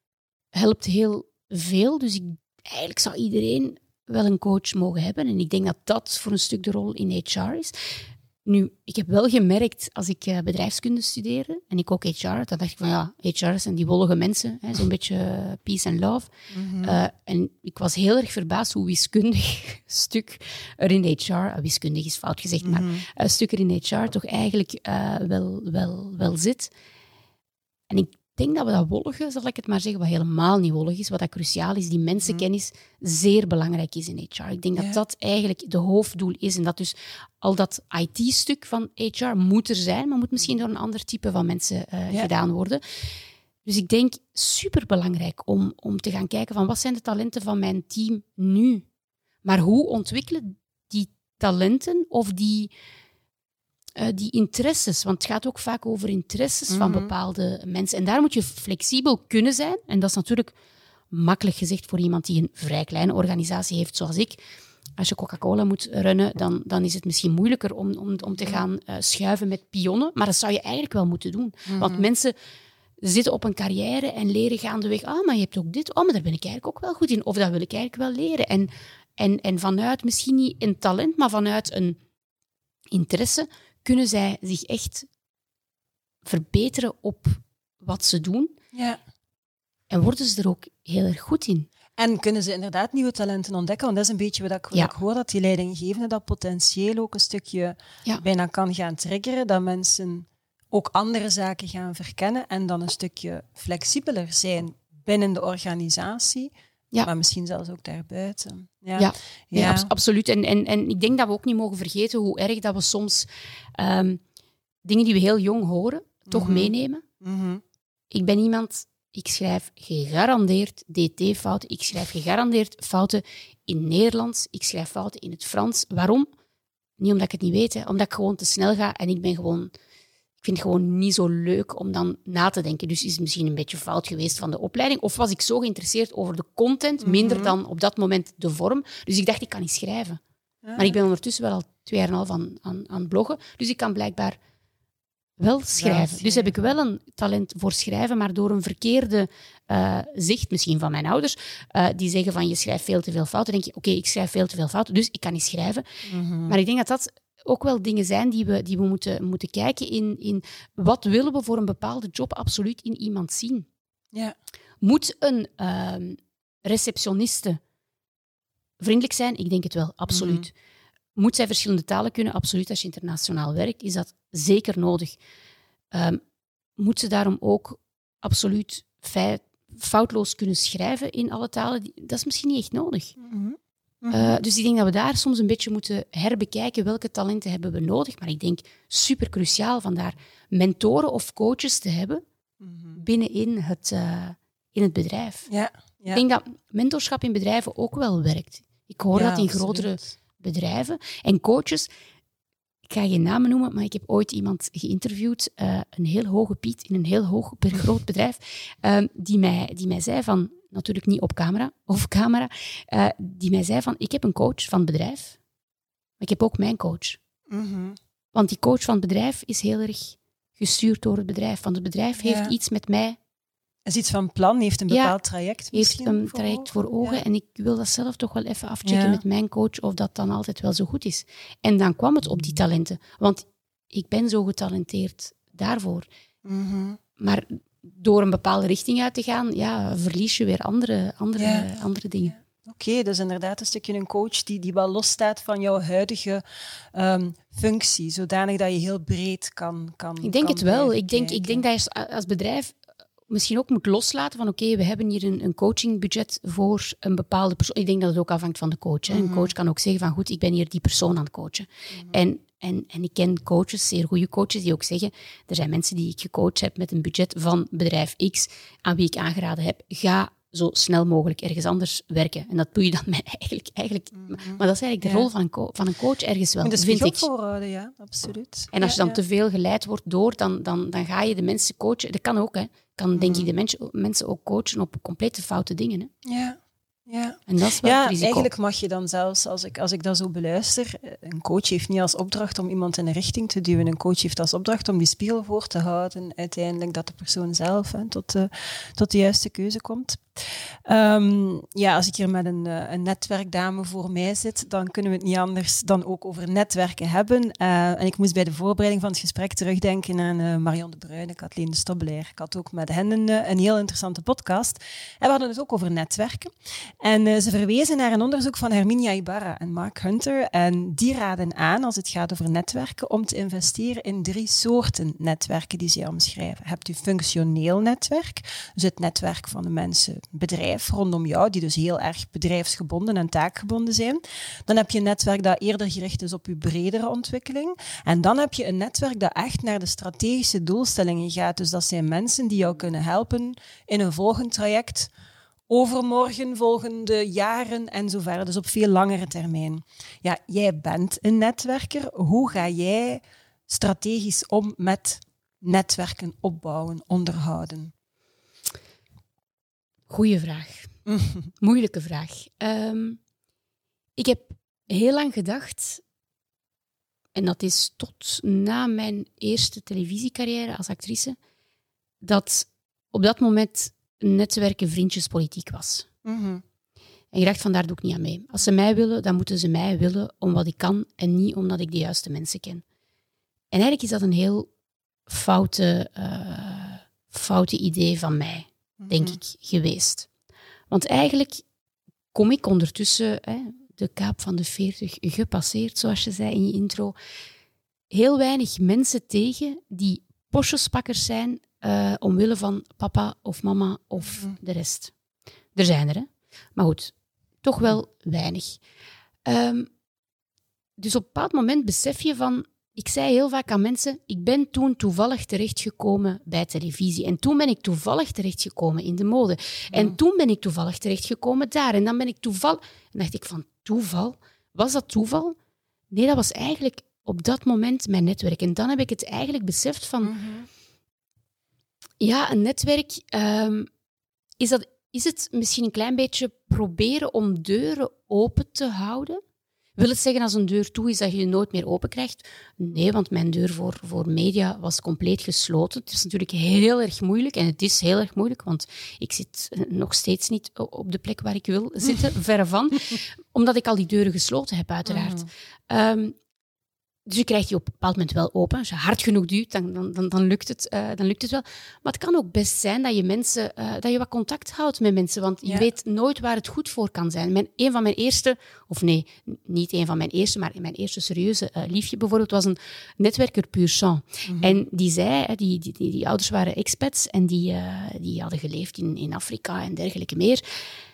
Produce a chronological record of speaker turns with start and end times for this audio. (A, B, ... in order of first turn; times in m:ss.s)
0:00.5-0:26.7 A
0:16.5-0:17.0 B
0:22.6-0:23.0 B
0:27.9-0:43.1 A
0:43.6-0:48.8 A
0:49.4-0:52.7 A
0:54.0-1:00.5 A
0:56.7-0:57.1 B
1:01.1-1:04.4 A
1:05.0-1:12.3 A
1:08.3-1:08.6 B
1:11.7-1:12.0 B
1:13.0-1:22.0 A
1:22.9-1:25.1 A
1:26.2-1:28.6 A
1:28.7-1:29.0 B
1:29.9-1:31.7 A
1:32.0-1:49.9 B
1:49.0-1:54.2 A
1:54.8-1:57.0 A
1:56.3-1:57.6 B
1:58.1-2:06.3 A
2:07.0-2:09.7 A
2:10.4-2:20.2 A
2:17.0-2:17.5 B
2:20.6-2:21.0 B
2:20.8-2:24.4 A
2:25.4-2:35.8 A
2:25.7-2:26.5 B
2:36.1-2:36.6 B
2:36.4-2:43.7 A
2:44.8-2:47.6 A
2:48.8-2:50.5 A
2:50.1-2:50.5 B
2:51.2-2:55.2 A
2:55.9-2:56.2 A
2:56.8-3:03.2 A
3:03.2-3:04.4 B
3:04.1-3:12.2 A
3:12.6-3:13.0 B
3:13.0-3:15.5 A
3:15.5-3:16.2 B
3:16.1-3:21.9 A
3:19.1-3:20.0 B
3:22.8-3:35.4 A
3:36.2-3:37.2 A
3:37.5-3:38.0 B
3:38.3-3:43.2 A
3:42.2-3:42.5 B
3:43.8-3:47.2 B
3:44.9-3:45.1 A
3:45.7-3:56.1 A
3:48.8-3:49.2 B
3:56.4-3:57.0 B
3:57.2-4:02.3 A
4:01.4-4:01.7 B
4:02.6-4:06.4 B
4:06.9-4:11.6 B
4:10.2-4:37.3 A
4:19.1-4:19.5 B
4:34.1-4:35.3 B
4:36.6-4:39.2 B
4:38.7-4:46.1 A
4:43.1-4:43.5 B
4:46.2-5:45.1 B
4:47.5-4:48.5 A
5:45.7-5:57.9 B
6:00.1-6:00.9 A
6:01.0-6:01.5 B
6:01.6-6:03.2 A
6:04.2-6:06.0 A
6:07.3-6:11.4 A
6:12.2-6:16.1 A
6:16.2-6:16.6 B
6:17.3-6:22.8 A
6:23.7-6:24.7 A
6:25.3-6:30.3 A
6:29.0-6:29.4 B
6:30.9-6:31.6 A
6:32.3-6:37.1 A
6:38.1-6:45.1 A
6:45.7-6:48.8 A
6:49.4-6:49.9 A
6:51.0-7:05.6 A
6:59.9-7:00.2 B
7:06.1-7:10.3 A
7:10.2-7:10.7 B
7:12.2-7:13.9 A
7:14.6-7:19.4 A
7:20.0-7:36.4 A
7:35.0-7:35.5 B
7:37.2-8:00.6 A
7:54.4-7:54.8 B